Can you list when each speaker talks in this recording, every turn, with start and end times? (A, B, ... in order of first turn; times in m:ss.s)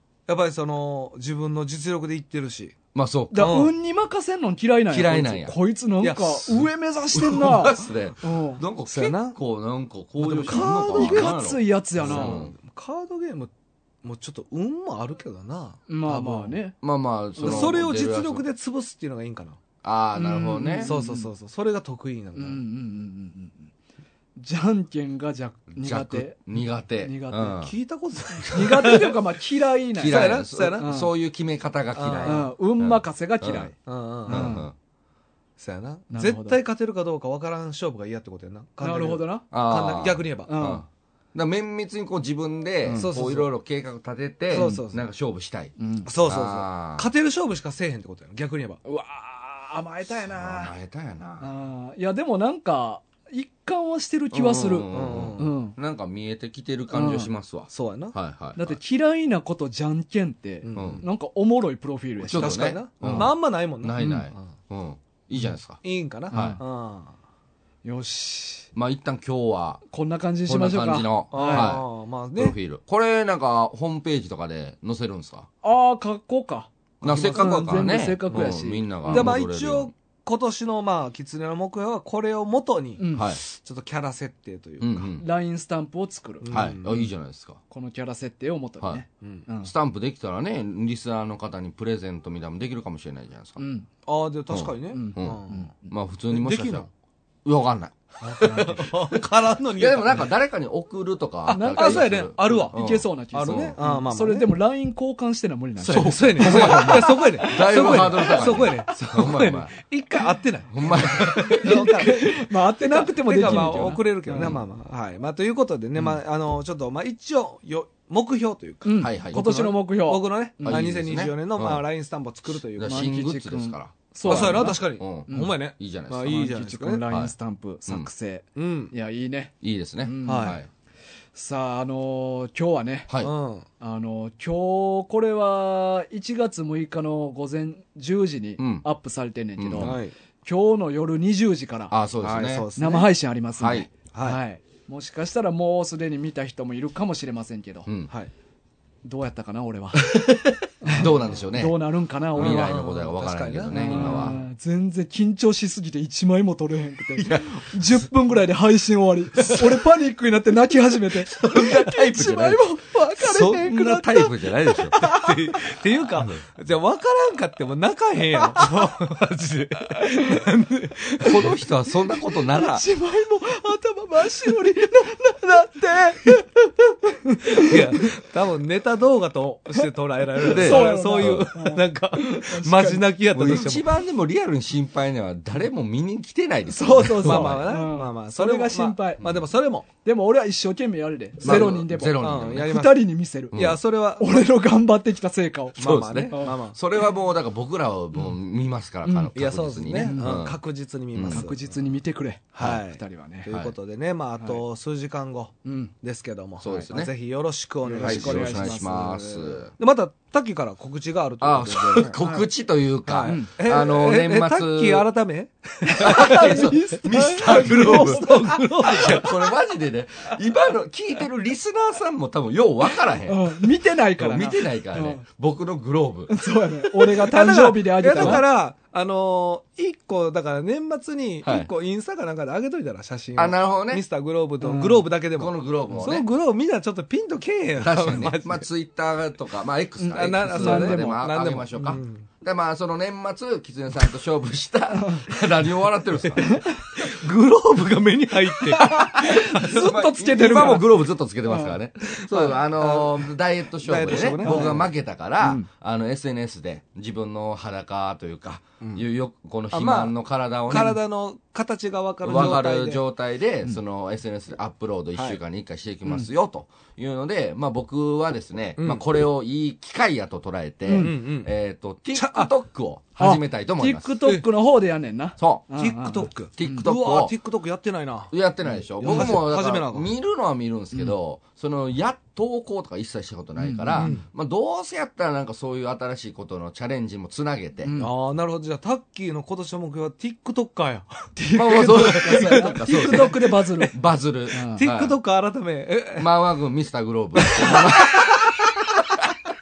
0:00.3-0:02.8 A
0:02.9-0:03.6 B
0:03.3-0:08.6 C
0:03.4-0:03.7 A
0:04.9-0:05.6 B
0:06.0-0:06.6 A
0:07.1-0:12.6 B
0:08.9-0:09.4 A
0:10.2-0:11.4 A
0:10.5-0:12.4 C
0:12.0-0:13.5 A
0:14.0-0:16.6 A
0:15.9-0:16.7 C
0:16.8-0:18.4 B
0:17.4-0:17.8 C
0:17.4-0:19.6 A
0:19.8-0:20.9 B
0:20.1-0:21.3 C
0:20.8-0:22.6 A
0:22.3-0:23.7 C
0:24.4-0:27.7 C
0:25.7-0:27.7 B
0:27.6-0:29.1 A
0:28.3-0:29.1 B
0:28.5-0:31.1 C
0:29.9-0:33.7 B
0:30.0-0:30.9 A
0:31.9-0:32.5 A
0:32.2-0:33.8 C
0:33.9-0:34.6 A
0:34.3-0:34.7 C
0:34.3-0:34.7 B
0:35.6-0:40.6 A
0:36.1-0:36.6 C
0:38.8-0:39.4 C
0:39.5-0:47.1 B
0:40.5-0:40.8 C
0:42.9-0:43.2 C
0:42.9-0:43.5 A
0:44.5-0:45.0 A
0:44.5-0:44.8 C
0:45.8-0:46.1 C
0:46.0-0:48.8 A
0:48.8-0:50.7 C
0:50.2-0:51.5 B
0:51.4-0:55.7 C
0:54.3-0:58.8 B
0:54.9-0:55.5 A
0:56.9-0:57.3 C
0:57.7-0:58.2 A
0:58.6-1:03.3 C
1:00.6-1:01.0 A
1:00.8-1:01.0 B
1:02.2-1:06.6 B
1:02.3-1:04.4 A
1:04.0-1:04.3 C
1:05.8-1:07.1 A
1:06.3-1:06.6 C
1:07.8-1:08.7 C
1:08.7-1:09.8 B
1:09.9-1:11.7 C
1:10.5-1:11.8 B
1:11.3-1:12.6 A
1:12.4-1:15.5 B
1:15.6-1:16.7 C
1:17.0-1:19.9 B
1:17.0-1:25.2 A
1:17.4-1:19.4 C
1:23.0-1:23.3 C
1:23.1-1:23.4 B
1:24.8-1:25.2 B
1:25.2-1:27.0 C
1:26.4-1:26.9 A
1:26.5-1:27.6 B
1:27.7-1:29.7 C
1:29.6-1:33.6 B
1:33.6-1:33.9 C
1:34.0-1:35.7 A
1:34.5-1:36.9 B
1:34.9-1:35.9 C
1:36.3-1:36.9 A
1:37.4-1:43.8 B
1:38.2-1:40.3 A
1:41.5-1:42.8 A
1:41.5-1:48.9 C
1:43.3-1:44.6 A
1:45.8-1:49.7 B
1:45.9-2:03.0 A
1:50.7-1:52.2 B
1:50.9-1:54.6 C
1:54.3-1:54.6 B
1:58.8-2:00.9 C
1:59.0-1:59.6 B
2:00.6-2:01.8 B
2:02.5-2:06.4 B
2:02.8-2:05.6 C
2:04.2-2:07.0 A
2:06.2-2:09.5 C
2:08.6-2:08.9 A
2:09.6-2:10.7 B
2:10.0-2:10.6 C
2:10.2-2:10.6 A
2:11.3-2:13.1 C
2:13.2-2:13.6 A
2:13.8-2:21.9 C
2:18.6-2:18.9 B
2:19.6-2:20.0 B
2:19.8-2:20.1 A
2:21.9-2:22.7 B
2:22.2-2:23.1 A
2:22.8-2:27.9 C
2:23.6-2:23.9 B
2:24.1-2:24.4 A
2:27.9-2:28.1 B
2:29.0-2:30.2 C
2:29.9-2:31.8 B
2:30.8-2:32.7 C
2:32.3-2:34.4 B
2:32.3-2:34.4 A
2:33.7-2:45.8 C
2:37.2-2:38.0 B
2:39.4-2:39.8 B
2:41.2-2:45.0 B
2:45.0-2:51.6 A
2:46.2-2:46.4 B
2:48.6-2:48.9 C
2:49.9-2:50.5 C
2:51.2-2:52.8 B
2:51.2-2:51.4 C
2:52.1-2:58.1 C
2:57.4-3:03.9 A
3:00.4-3:03.0 C
3:00.4-3:01.5 B
3:03.3-3:07.7 B
3:06.7-3:09.2 C
3:07.2-3:09.9 A
3:10.0-3:13.6 C
3:11.4-3:12.7 B
3:11.4-3:14.5 A
3:13.5-3:13.8 B
3:14.2-3:16.6 C
3:15.8-3:20.6 B
3:15.8-3:16.8 A
3:19.0-3:19.4 C
3:19.3-3:21.6 A
3:20.0-3:20.4 C
3:21.1-3:21.4 B
3:21.3-3:23.5 C
3:22.5-3:32.2 A
3:23.5-3:23.7 B
3:25.6-3:25.9 C
3:26.6-3:27.1 B
3:27.8-3:29.2 C
3:28.0-3:29.7 B
3:31.4-3:35.1 B
3:32.2-3:32.4 C
3:33.1-3:36.7 A
3:33.2-3:33.5 C
3:35.8-3:39.2 C
3:36.0-3:43.6 B
3:37.3-3:39.4 A
3:43.3-3:45.2 C
3:44.2-3:46.3 B
3:46.3-3:48.4 C
3:46.9-3:58.6 A
3:48.2-3:48.4 B
3:51.4-3:51.7 B
3:53.4-3:54.0 B
3:54.6-3:55.1 C
3:55.4-3:56.3 B
3:57.8-4:06.6 B
4:00.0-4:02.0 C
4:00.1-4:02.2 A
4:04.9-4:05.3 C
4:06.3-4:10.0 A
4:06.4-4:06.9 C
4:08.6-4:11.8 C
4:09.2-4:21.0 B
4:12.0-4:14.9 A
4:14.4-4:14.8 C
4:15.4-4:15.7 C
4:19.7-4:23.0 A
4:20.7-4:21.0 C
4:22.2-4:34.2 B
4:28.8-4:29.0 A
4:30.9-4:31.1 C
4:31.0-4:31.5 A
4:32.1-4:32.5 A
4:33.2-4:36.9 C
4:35.4-4:35.6 B
4:35.8-4:40.1 A
4:36.6-4:37.3 B
4:38.3-4:47.9 B
4:39.0-4:39.4 C
4:43.6-4:44.2 C
4:43.9-4:44.2 A
4:47.8-4:48.1 C
4:48.0-4:53.9 A
4:51.4-4:53.9 C
4:51.6-4:55.1 B
4:54.5-4:54.8 C
4:54.7-4:56.3 A
4:56.2-4:59.3 B
4:57.4-4:59.1 A